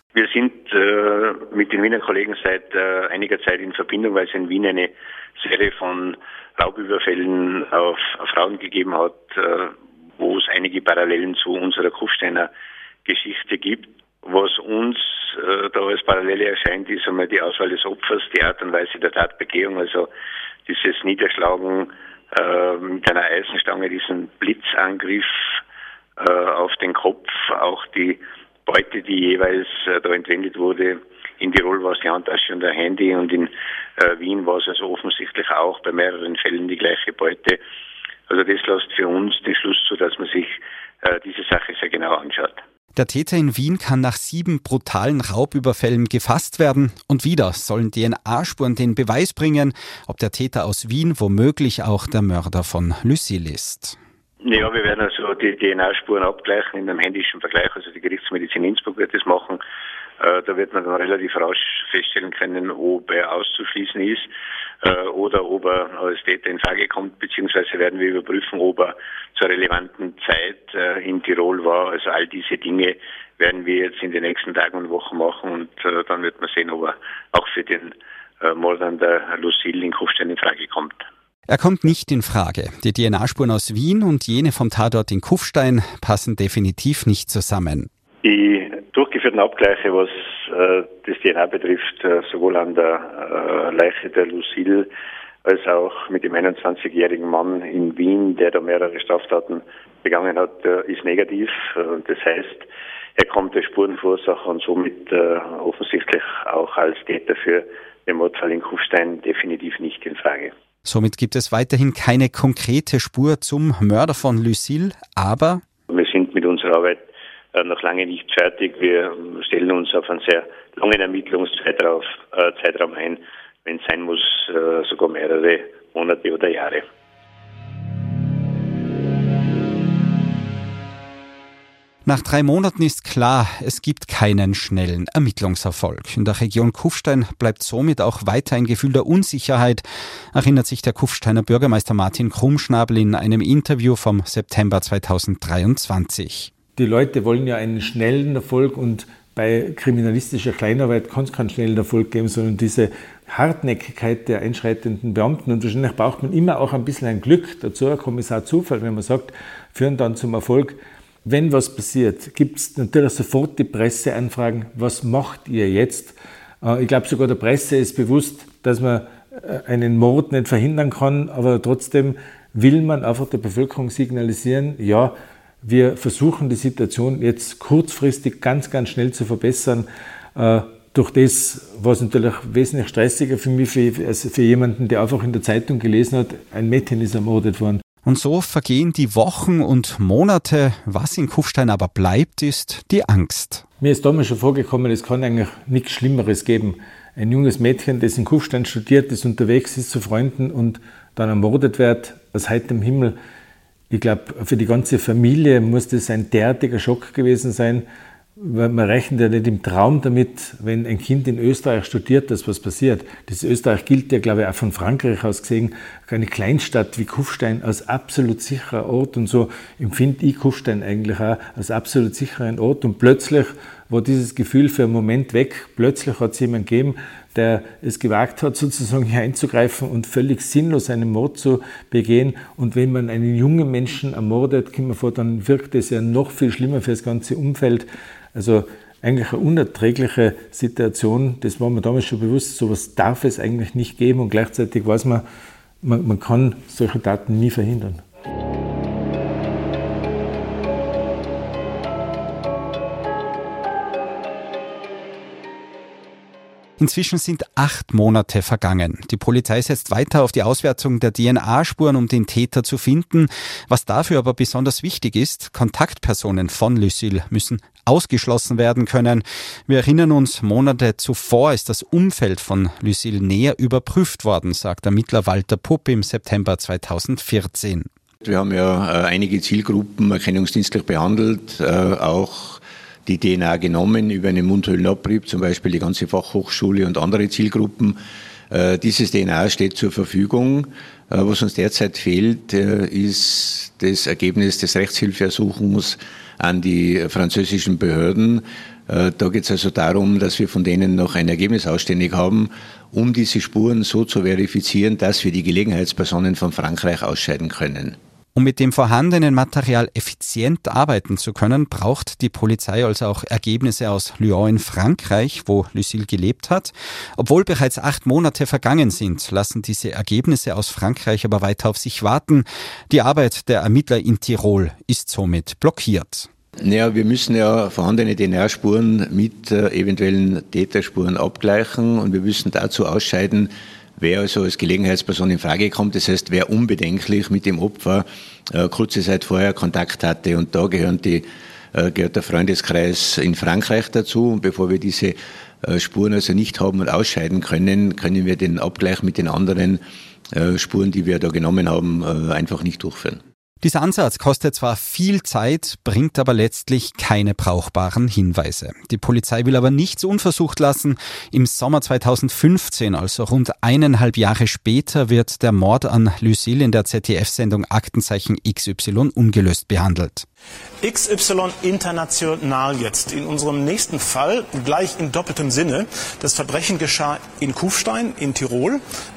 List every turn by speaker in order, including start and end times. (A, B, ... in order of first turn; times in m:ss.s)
0:00.2-0:12.5 A
0:13.1-0:20.1 A
0:20.7-0:25.3 A
0:26.2-0:37.6 A
0:38.3-0:42.6 A
0:42.9-0:54.0 B
0:54.4-0:59.6 A
1:00.2-1:04.3 A
1:04.8-1:21.0 A
1:21.5-1:27.9 B
1:28.2-1:34.9 A
1:35.4-1:50.5 A
1:50.8-1:55.6 B
1:55.9-1:57.0 A
1:57.5-2:06.8 A
2:12.0-2:26.5 B
2:26.8-3:07.8 C
3:08.0-3:13.7 B
3:13.8-3:23.2 C
3:23.9-3:27.9 C
3:28.4-4:05.2 C
4:05.8-4:08.0 C
4:16.8-4:37.9 B
4:38.2-4:48.0 D
4:48.5-5:08.0 D
5:08.3-5:26.3 B
5:26.6-5:41.2 D
5:41.8-5:49.8 D
5:50.4-5:53.2 D
5:53.6-6:10.3 B
6:10.8-6:18.8 E